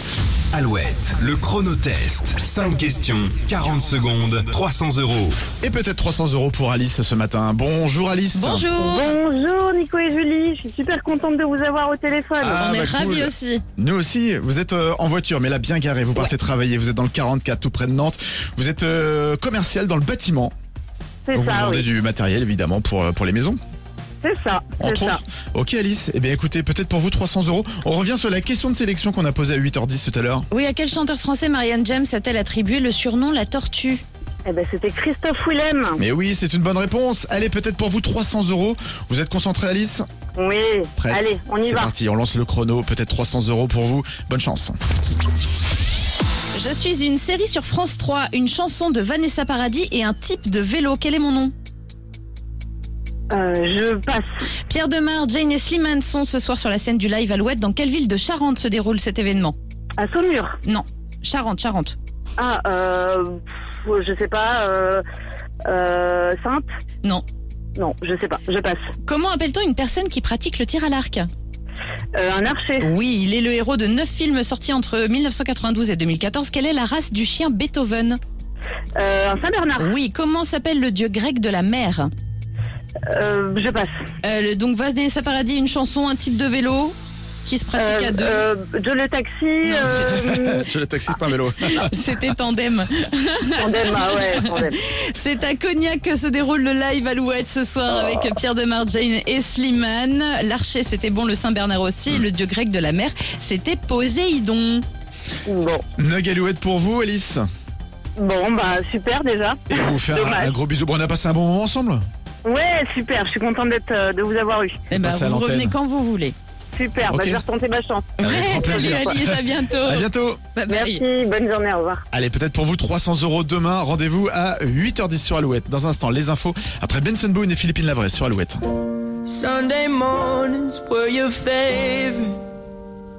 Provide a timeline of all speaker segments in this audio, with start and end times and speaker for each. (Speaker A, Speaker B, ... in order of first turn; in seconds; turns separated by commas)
Speaker A: 0.5-5.5, Speaker B: 5.6-8.7, Speaker C: 8.3-9.1, Speaker D: 8.8-12.6, Speaker B: 12.4-20.5, Speaker C: 12.6-13.6, Speaker D: 21.3-21.8, Speaker B: 21.3-23.6, Speaker D: 24.2-25.2, Speaker B: 24.8-30.5, Speaker C: 30.5-34.0, Speaker D: 34.5-36.0, Speaker B: 36.0-40.0, Speaker D: 40.4-41.9, Speaker B: 41.0-44.8, Speaker C: 46.5-51.5, Speaker D: 53.3-54.2, Speaker C: 54.7-59.5, Speaker D: 60.0-60.6, Speaker C: 60.6-62.0, Speaker D: 62.4-65.0, Speaker D: 65.7-66.6, Speaker D: 67.8-68.9, Speaker C: 69.0-71.3, Speaker D: 72.2-72.9, Speaker C: 72.8-78.2, Speaker D: 79.0-79.9, Speaker C: 79.8-82.1, Speaker D: 83.1-83.9, Speaker C: 84.2-88.4, Speaker D: 87.8-90.7, Speaker C: 89.6-90.2, Speaker B: 89.8-91.9, Speaker C: 91.6-104.8, Speaker D: 93.6-94.8, Speaker D: 105.5-105.8, Speaker B: 106.0-107.4, Speaker D: 108.2-110.5, Speaker B: 109.7-112.0, Speaker D: 112.4-114.8, Speaker C: 114.9-116.3, Speaker B: 114.9-115.7, Speaker D: 116.7-119.2, Speaker B: 117.1-117.4, Speaker C: 118.2-121.0, Speaker B: 118.2-120.4, Speaker D: 120.7-122.0, Speaker B: 122.1-128.6, Speaker E: 129.2-132.4